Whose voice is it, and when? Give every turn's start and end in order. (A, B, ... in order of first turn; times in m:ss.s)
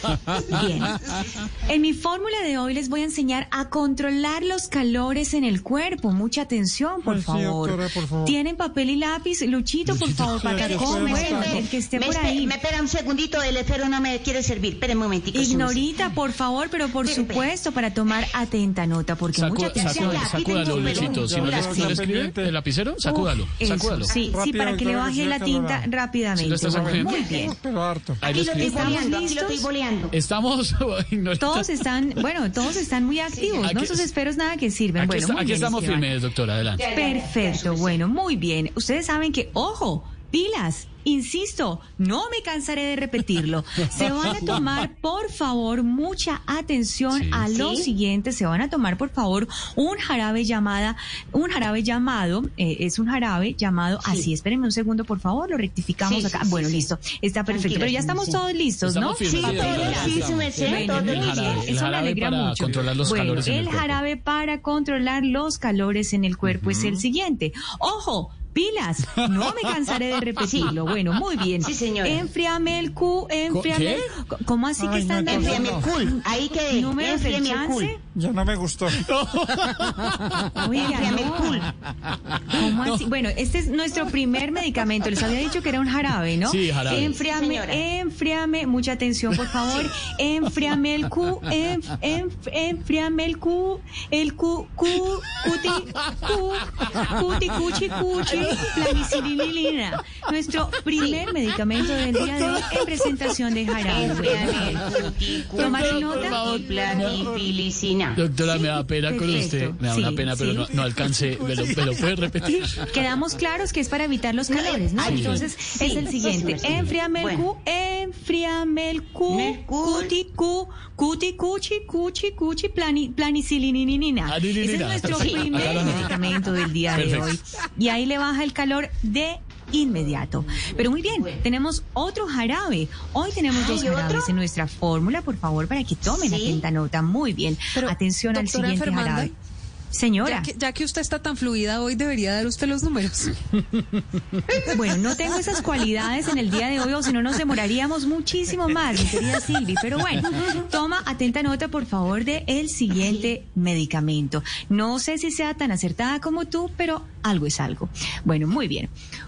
0:00.4-0:01.0 A
0:01.5-0:12.6 A
0:07.0-0:08.4 B
0:09.8-0:10.5 C
0:10.4-0:11.7 B
0:10.5-0:16.1 D
0:15.3-0:21.1 A
0:17.0-0:17.5 D
0:19.3-0:24.1 C
0:19.6-0:22.0 D
0:20.8-0:22.5 B
0:23.0-0:27.6 A
0:24.0-0:24.4 D
0:24.3-0:25.9 B
0:26.4-0:27.3 C
0:26.7-0:28.2 B
0:28.2-0:29.0 C
0:28.2-0:30.1 D
0:28.4-0:29.7 A
0:30.1-0:31.6 C
0:31.4-0:36.1 A
0:33.3-0:33.6 D
0:33.6-0:34.1 C
0:35.0-0:36.8 C
0:36.8-0:38.0 D
0:36.9-1:18.0 A
0:44.0-0:44.6 C
0:47.1-0:47.4 C
0:47.5-0:47.9 D
0:56.0-0:56.9 D
0:57.5-0:58.4 D
0:58.8-1:04.0 C
0:59.2-1:01.7 D
1:06.4-1:07.0 C
1:10.4-1:10.8 D
1:11.6-1:12.2 D
1:13.5-1:14.0 C
1:14.8-1:16.0 B
1:15.2-1:17.9 D
1:18.1-1:19.0 B
1:18.9-1:23.0 C
1:20.6-1:21.7 A
1:20.7-1:21.7 D
1:22.5-1:44.7 A
1:26.4-1:27.2 C
1:26.9-1:27.8 D
1:43.8-1:48.2 D
1:45.5-1:47.3 C
1:45.6-1:46.5 A
1:46.8-1:47.2 B
1:48.1-1:52.9 C
1:49.0-1:50.7 A
1:50.8-1:52.1 B
1:52.9-2:19.3 A
1:54.5-1:57.5 D
1:55.0-1:55.5 C
1:59.3-2:00.1 D
2:04.3-2:06.1 C
2:05.1-2:06.0 D
2:06.9-2:07.3 C
2:11.0-2:11.4 D
2:13.5-2:14.3 D
2:16.0-2:16.6 D
2:17.7-2:19.3 E
2:19.9-2:20.5 A
2:20.2-2:23.3 E
2:24.6-2:38.9 A
2:32.9-2:33.3 D